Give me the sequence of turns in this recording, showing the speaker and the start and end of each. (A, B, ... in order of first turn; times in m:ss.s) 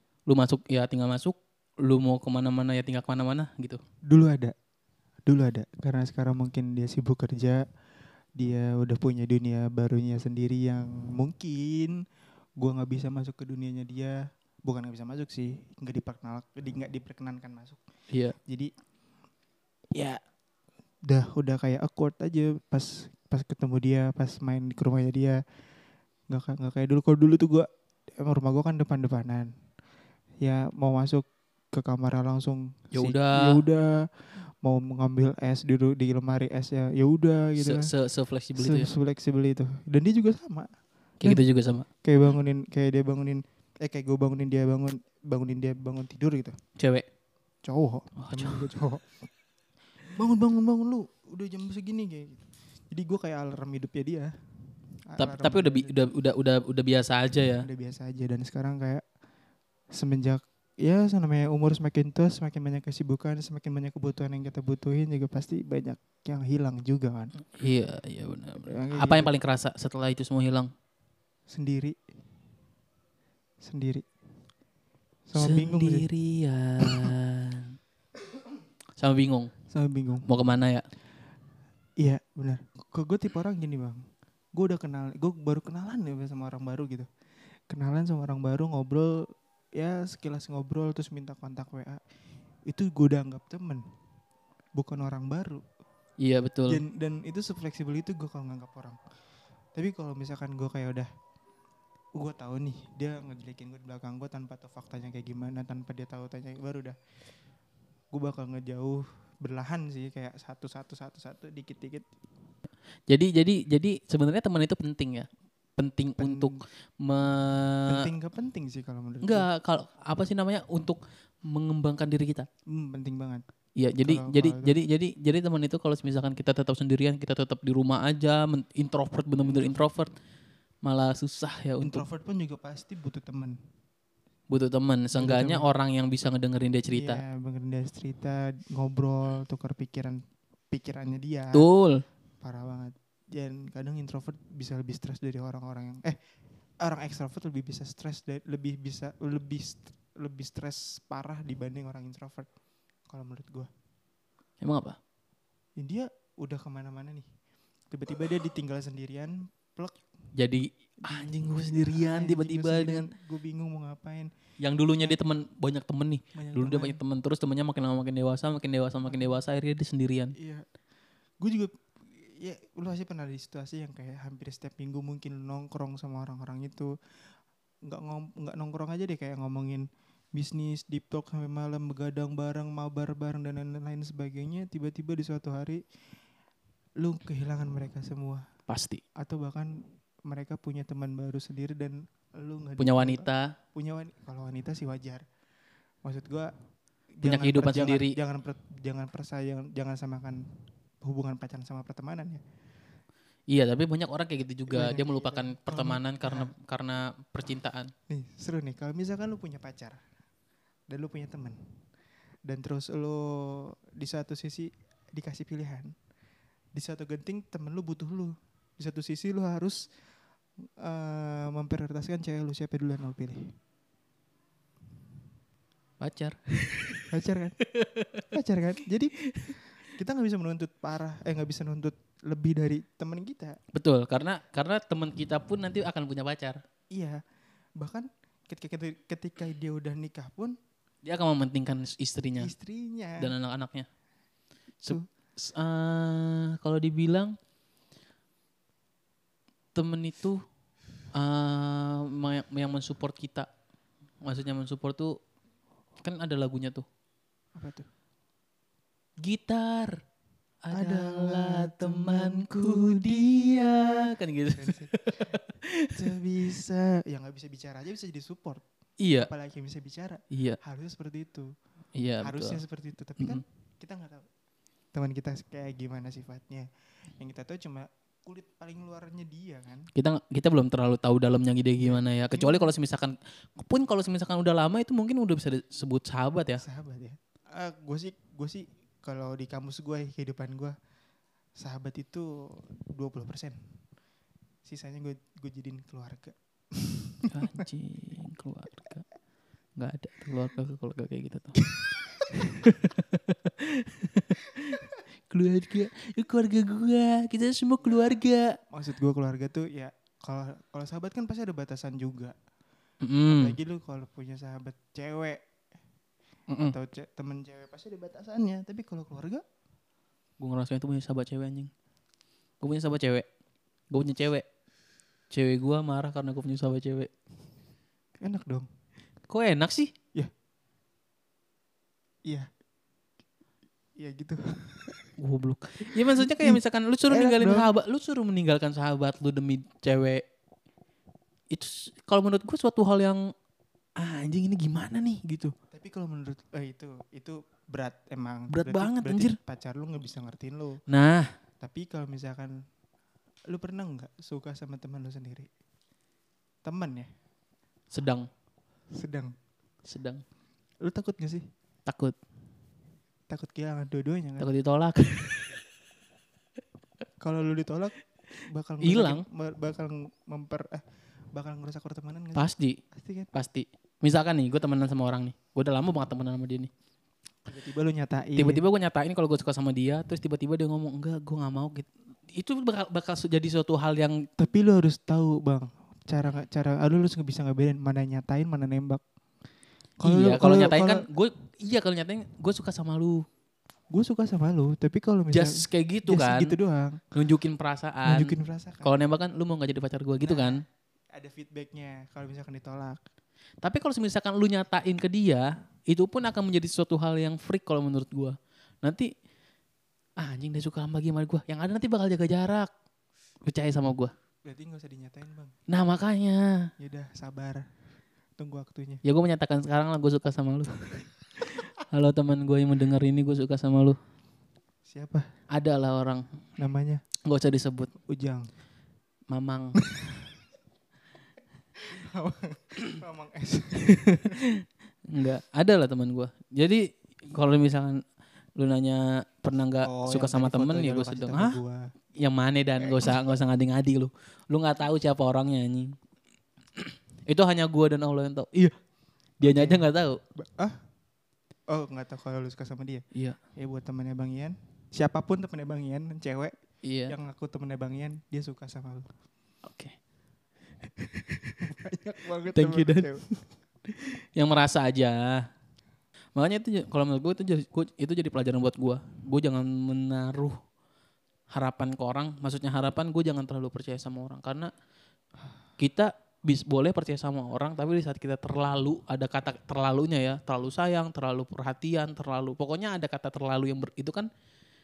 0:00.3-0:03.8 A
0:04.1-0:04.5 B
0:05.2-0:07.6 B
0:08.4-0:12.0 B
0:12.6-0:17.8 B
0:18.1-0:18.4 A
0:19.9-0:20.2 B
0:21.0-0:25.4 B
0:26.3-0:29.5 B
0:30.4-0:37.9 B
0:32.9-0:33.6 A
0:37.6-0:38.9 A
0:38.5-0:40.7 B
0:41.2-0:41.9 A
0:42.0-0:46.6 B
0:46.8-0:47.0 A
0:47.6-0:49.2 B
0:48.2-0:48.7 A
0:50.1-0:54.3 B
0:55.1-0:56.1 B
0:55.2-0:57.7 A
0:57.6-0:59.0 B
0:59.9-1:07.3 B
1:07.5-1:10.7 A
1:08.6-1:09.3 B
1:11.5-1:12.0 B
1:13.6-1:14.0 B
1:15.3-1:16.1 B
1:15.4-1:17.7 A
1:16.8-1:17.1 B
1:19.0-1:19.5 A
1:19.7-1:20.3 B
1:20.2-1:20.8 A
1:22.0-1:24.0 B
1:24.5-1:27.1 B
1:27.7-1:32.0 B
1:32.7-1:33.8 B
1:34.8-1:35.6 B
1:36.2-1:36.8 A
1:36.6-1:39.0 B
1:39.8-1:41.1 B
1:42.2-1:47.0 B
1:48.1-1:52.1 B
1:53.1-1:58.1 A
1:56.2-1:56.6 B
1:57.9-1:59.5 B
1:59.2-2:02.5 A
2:02.7-2:03.4 B
2:03.8-2:10.1 A
2:04.0-2:04.8 B
2:09.4-2:09.9 B
2:10.8-2:12.0 A
2:11.8-2:13.6 B
2:14.5-2:17.2 A
2:15.1-2:15.7 B
2:16.9-2:21.7 B
2:21.5-2:22.0 A
2:22.4-2:26.2 B
2:26.8-2:32.5 B
2:33.1-2:33.7 B
2:34.6-2:35.0 A
2:35.8-2:37.3 B
2:37.9-2:40.0 B
2:40.4-2:43.1 A
2:41.0-2:44.3 B
2:44.6-2:50.4 A
2:46.4-2:47.0 B
2:49.1-2:49.4 B
2:50.4-2:50.6 B
2:51.4-2:56.9 B
2:57.9-3:05.8 B
3:07.0-3:08.4 B
3:08.7-3:09.0 A
3:09.2-3:15.2 B
3:12.8-3:13.5 A
3:16.0-3:16.5 B
3:17.2-3:20.4 B
3:17.2-3:18.2 A
3:21.0-3:22.4 B
3:23.5-3:27.9 A
3:24.7-3:26.5 B
3:28.1-3:30.0 B
3:30.9-3:31.6 B
3:32.5-3:35.9 B
3:36.8-3:39.9 B
3:40.8-3:43.5 B
3:46.0-3:47.1 A
3:47.1-3:47.6 B
3:47.8-3:48.2 A
3:48.3-3:53.6 B
3:53.7-3:56.6 A
3:56.9-3:57.2 B
3:57.8-4:00.6 B
4:01.0-4:02.5 A
4:02.4-4:03.3 B
4:03.2-4:03.9 A
4:04.8-4:07.4 A
4:09.8-4:10.4 A
4:11.1-4:13.5 A
4:14.2-4:15.2 A
4:16.0-4:16.8 A
4:17.5-4:17.9 B
4:19.2-4:20.0 A
4:20.6-4:26.0 A
4:20.7-4:23.5 B
4:24.5-4:25.4 B
4:25.9-4:28.6 B
4:29.0-4:29.3 A
4:29.2-4:31.5 B
4:30.3-4:30.6 A
4:31.9-4:32.6 A
4:32.2-4:34.2 B
4:34.9-4:39.9 B
4:39.9-4:46.6 A
4:41.8-4:42.7 B
4:46.6-4:50.8 B
4:51.6-4:53.6 B
4:54.6-4:57.3 B
4:57.3-4:59.0 A
4:59.8-5:01.6 A
5:02.3-5:08.6 A
5:08.7-5:12.4 B
5:13.0-5:13.6 A
5:13.3-5:15.4 B
5:16.5-5:16.8 A
5:16.6-5:19.4 B
5:20.4-5:21.7 A
5:22.6-5:23.2 A
5:23.9-5:24.4 A
5:25.3-5:27.1 A
5:28.2-5:28.7 B
5:29.3-5:29.9 A
5:34.0-5:35.0 B
5:35.2-5:40.2 A
5:36.1-5:37.7 B
5:41.5-5:43.2 A
5:44.0-5:45.5 A
5:45.7-5:50.8 B
5:48.5-5:49.4 A
5:50.9-5:51.3 A
5:51.6-5:52.6 B
5:53.5-5:55.5 B
5:56.6-5:57.1 B
5:57.9-5:58.3 A
5:58.9-5:59.3 B
5:59.9-6:00.2 A
6:00.8-6:01.4 B
6:01.9-6:02.2 A
6:03.3-6:04.5 B
6:04.4-6:05.6 A
6:07.2-6:13.3 B
6:08.8-6:09.2 A
6:12.4-6:12.8 A
6:13.3-6:16.7 A
6:17.5-6:18.6 B
6:18.4-6:24.2 A
6:24.4-6:29.0 B
6:30.0-6:33.2 A
6:30.0-6:31.0 B
6:33.9-6:37.0 B
6:35.3-6:36.5 A
6:37.1-6:40.6 A
6:38.0-6:39.0 B
6:40.2-6:43.0 B
6:43.6-6:49.1 A
6:50.2-6:52.7 A
6:53.4-6:54.1 A
6:54.4-6:55.5 B
6:55.7-6:56.7 A
6:56.8-6:57.7 B
6:58.4-6:59.0 B
6:59.0-7:01.0 A
7:01.8-7:04.0 A
7:04.9-7:05.3 B
7:05.5-7:06.3 A
7:06.6-7:07.0 B
7:07.2-7:07.9 A
7:08.1-7:08.5 B
7:09.3-7:09.8 A
7:11.9-7:14.3 B
7:13.9-7:14.4 A
7:15.1-7:18.0 A
7:18.6-7:21.6 A
7:19.8-7:21.9 B
7:22.2-7:25.9 A
7:22.8-7:23.2 B
7:26.8-7:28.7 A
7:29.4-7:30.2 A
7:29.4-7:30.8 B
7:31.7-7:33.0 B
7:33.6-7:36.5 B
7:36.8-7:37.1 A
7:37.1-7:39.1 B
7:39.6-7:39.9 A
7:41.2-7:41.6 A
7:41.6-7:43.2 B
7:42.5-7:43.4 A
7:43.9-7:45.4 A
7:46.4-7:50.6 A
7:51.5-7:54.7 A
7:55.8-8:04.3 A